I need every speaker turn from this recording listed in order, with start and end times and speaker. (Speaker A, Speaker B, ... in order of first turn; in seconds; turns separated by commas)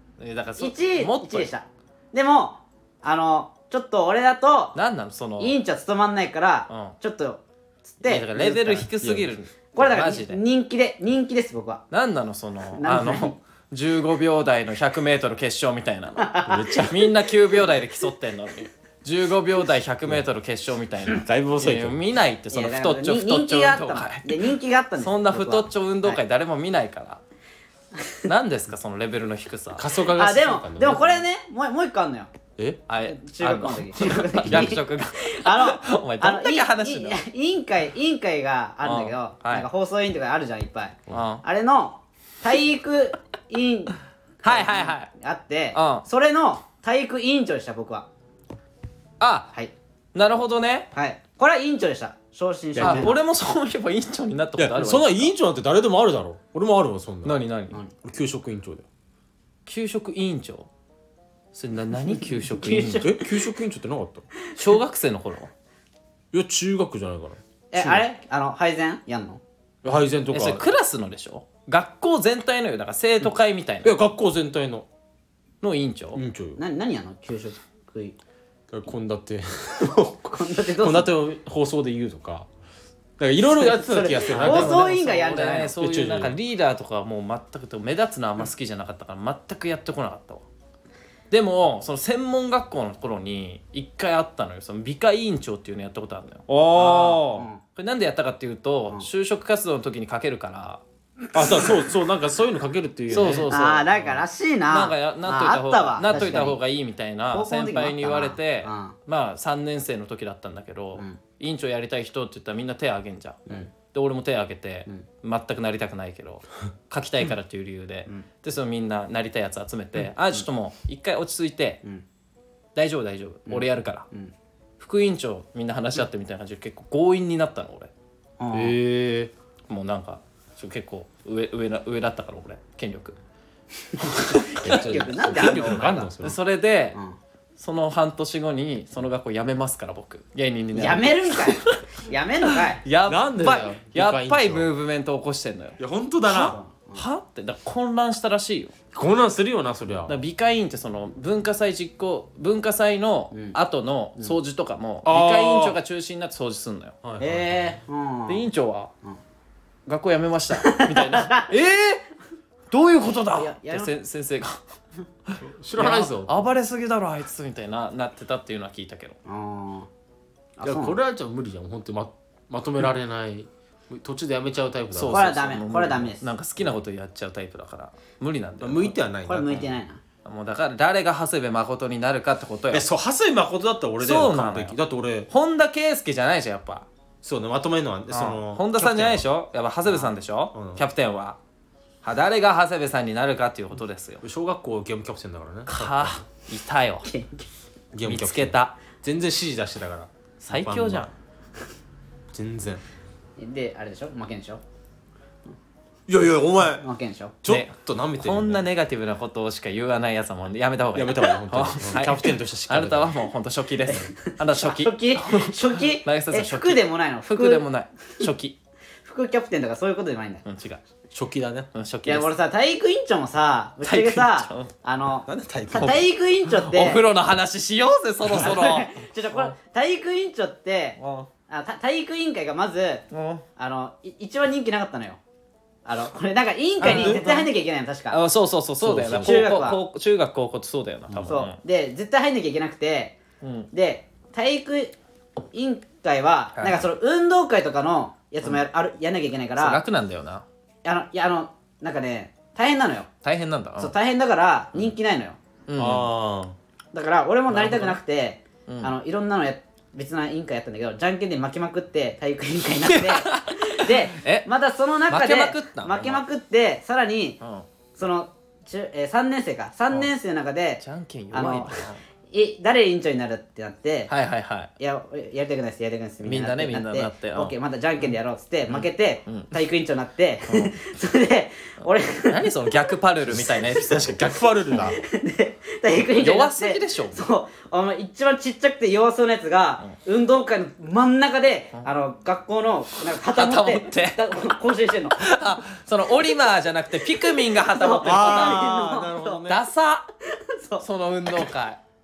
Speaker A: 0.2-1.5, Speaker B: 0.6-4.8, Speaker A: 4.8-5.6, Speaker B: 5.4-8.9, Speaker A: 6.7-7.0, Speaker A: 8.0-10.4, Speaker C: 8.9-9.3, Speaker B: 9.8-11.8, Speaker A: 11.9-27.2, Speaker B: 12.8-13.4, Speaker B: 16.2-16.7, Speaker C: 16.5-17.1, Speaker C: 21.1-22.0, Speaker B: 22.5-26.2, Speaker B: 28.0-28.2, Speaker A: 28.3-29.9, Speaker C: 29.8-31.2, Speaker B: 30.1-32.3, Speaker C: 32.6-32.8, Speaker A: 32.9-37.2, Speaker B: 33.0-48.1, Speaker C: 34.5-34.8, Speaker A: 38.8-39.7, Speaker A: 41.1-41.4, Speaker A: 44.4-45.1, Speaker A: 45.7-46.0, Speaker A: 49.2-49.5, Speaker A: 50.1-50.9, Speaker B: 50.9-53.2, Speaker C: 52.8-53.1, Speaker A: 52.8-55.3, Speaker C: 54.6-57.4, Speaker A: 57.2-57.8, Speaker C: 58.0-58.9, Speaker A: 59.7-60.7, Speaker A: 61.5-63.1, Speaker B: 62.1-63.4, Speaker C: 63.0-64.3, Speaker A: 64.6-65.5, Speaker C: 66.3-68.0, Speaker B: 67.7-69.4, Speaker C: 69.8-70.6, Speaker A: 70.3-73.9, Speaker C: 73.8-74.9, Speaker A: 75.6-76.2, Speaker C: 76.1-76.6, Speaker B: 76.6-78.2, Speaker C: 78.7-82.5, Speaker B: 80.2-81.1, Speaker C: 83.2-84.9, Speaker B: 83.5-85.8, Speaker A: 84.3-90.5, Speaker C: 85.8-86.4, Speaker A: 91.3-100.8, Speaker C: 96.5-97.5, Speaker B: 96.8-97.6, Speaker C: 101.3-104.2, Speaker A: 103.1-103.8, Speaker B: 103.5-106.6, Speaker A: 104.7-121.8, Speaker B: 107.3-109.0, Speaker A: 122.8-124.1, Speaker B: 123.5-124.3, Speaker A: 124.8-127.9, Speaker B: 128.4-128.8, Speaker C: 128.5-129.3, Speaker A: 129.7-133.2, Speaker B: 134.1-136.1, Speaker A: 134.2-137.0, Speaker C: 134.5-136.4, Speaker A: 137.6-141.8, Speaker B: 140.7-142.8, Speaker A: 142.6-148.7, Speaker C: 143.1-144.7, Speaker C: 145.8-146.6, Speaker B: 146.4-147.0, Speaker C: 148.9-150.2, Speaker A: 150.1-157.0, Speaker C: 155.1-155.8, Speaker C: 157.0-157.8, Speaker B: 157.2-158.5, Speaker A: 158.3-158.9, Speaker A: 159.9-162.1, Speaker B: 160.6-161.5, Speaker A: 162.7-164.6, Speaker B: 163.3-163.9, Speaker A: 165.3-169.2, Speaker C: 165.4-166.5, Speaker B: 169.3-169.9, Speaker B: 170.6-171.0, Speaker C: 170.6-175.3, Speaker A: 174.9-179.0, Speaker B: 175.1-176.3, Speaker C: 178.6-179.7, Speaker B: 179.3-180.0, Speaker A: 180.2-182.9, Speaker C: 182.7-185.3, Speaker A: 184.0-184.8, Speaker A: 185.3-186.9, Speaker C: 187.2-189.3, Speaker A: 188.1-191.4, Speaker C: 189.9-190.8, Speaker A: 192.0-194.2, Speaker C: 194.2-196.2, Speaker A: 195.7-197.1, Speaker B: 197.1-197.4, Speaker C: 197.9-201.1, Speaker A: 198.1-198.8, Speaker A: 200.4-201.1, Speaker C: 202.3-202.8, Speaker B: 203.4-204.6, Speaker C: 206.1-206.9, Speaker B: 206.8-207.3, Speaker C: 207.4-208.7, Speaker A: 207.5-218.6, Speaker C: 210.9-213.2, Speaker B: 213.9-217.7, Speaker B: 219.0-220.4, Speaker A: 220.4-220.8, Speaker C: 221.1-221.7, Speaker A: 221.7-222.3, Speaker B: 222.1-227.0, Speaker A: 223.8-224.7, Speaker C: 225.3-226.1, Speaker A: 225.8-229.5, Speaker B: 228.3-233.1, Speaker A: 231.0-231.3, Speaker A: 233.1-233.4, Speaker B: 233.6-235.2, Speaker B: 235.8-238.2, Speaker A: 236.8-237.5, Speaker C: 236.8-237.2, Speaker A: 238.1-241.6, Speaker C: 238.8-239.5, Speaker B: 239.0-239.8, Speaker B: 241.2-243.2, Speaker A: 243.4-243.7, Speaker B: 243.7-245.0, Speaker B: 245.5-249.8, Speaker A: 246.6-246.8, Speaker A: 249.6-250.4, Speaker B: 250.8-253.1, Speaker A: 253.2-253.9, Speaker B: 253.8-255.4, Speaker A: 255.7-256.1, Speaker C: 255.8-256.6, Speaker B: 256.9-267.4, Speaker A: 257.5-258.0, Speaker A: 258.7-258.9, Speaker A: 262.9-264.5, Speaker A: 265.1-266.2, Speaker A: 267.4-267.7, Speaker B: 268.0-274.1, Speaker A: 270.8-272.0, Speaker A: 274.1-274.7, Speaker B: 274.8-282.5, Speaker A: 276.2-278.1, Speaker A: 278.7-279.5, Speaker A: 282.2-284.9, Speaker C: 283.3-285.0, Speaker B: 284.8-295.2, Speaker A: 286.2-287.2, Speaker A: 293.3-294.2, Speaker A: 295.2-298.7, Speaker B: 297.4-299.5, Speaker C: 298.0-299.6, Speaker A: 299.5-300.1, Speaker B: 300.5-300.9, Speaker A: 300.8-301.8